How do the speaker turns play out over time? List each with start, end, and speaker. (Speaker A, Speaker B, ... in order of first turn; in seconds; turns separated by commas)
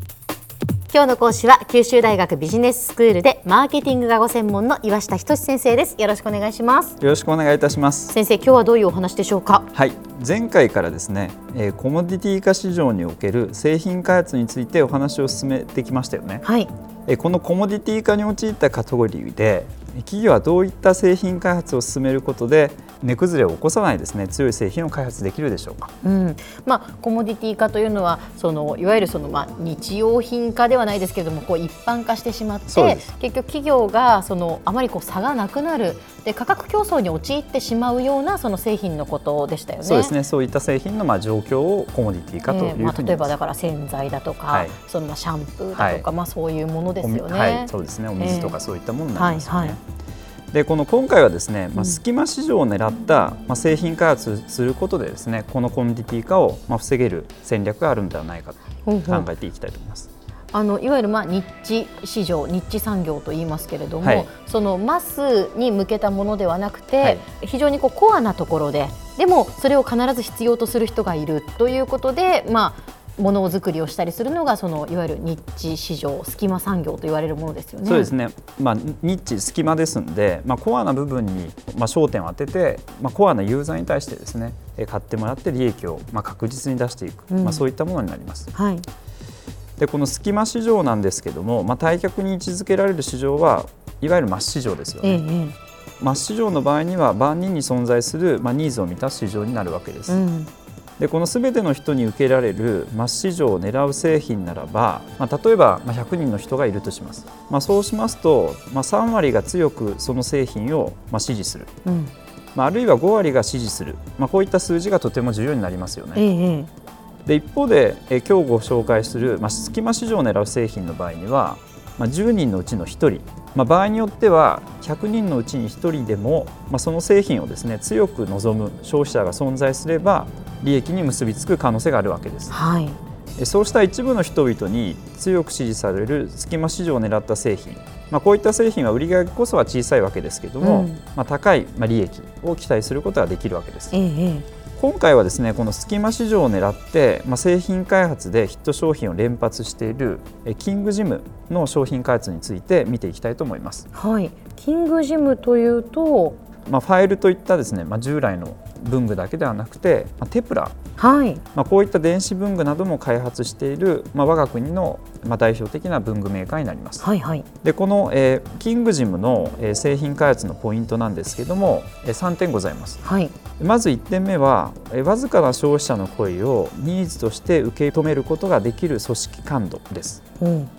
Speaker A: 0.9-7.0, Speaker B: 7.0-8.1, Speaker A: 8.1-9.7, Speaker B: 9.7-16.4, Speaker A: 16.4-16.7, Speaker B: 17.1-25.9, Speaker A: 26.0-40.1, Speaker B: 32.7-33.1, Speaker B: 39.8-43.3, Speaker A: 42.5-48.5, Speaker B: 44.5-44.8, Speaker B: 45.7-46.0, Speaker B: 47.0-49.8, Speaker A: 49.1-49.8, Speaker B: 50.5-60.1, Speaker A: 58.9-59.3, Speaker A: 60.5-78.1, Speaker B: 64.0-64.3, Speaker B: 77.8-88.5, Speaker A: 87.3-87.6, Speaker A: 88.5-88.8, Speaker B: 89.8-95.2, Speaker A: 95.0-95.5, Speaker B: 96.0-100.2, Speaker A: 100.1-100.5, Speaker B: 101.0-111.7, Speaker A: 111.8-112.1, Speaker B: 112.5-116.2, Speaker A: 116.1-116.7, Speaker B: 117.2-132.5, Speaker A: 132.5-133.0, Speaker B: 133.4-143.9, Speaker A: 140.6-141.0, Speaker A: 143.9-144.4, Speaker B: 144.8-153.8, Speaker A: 153.9-156.4, Speaker B: 156.7-160.8, Speaker A: 161.0-161.4, Speaker B: 161.5-167.0, Speaker A: 167.0-167.4, Speaker B: 167.6-173.0, Speaker A: 173.0-173.3, Speaker B: 173.6-180.2, Speaker A: 180.4-180.7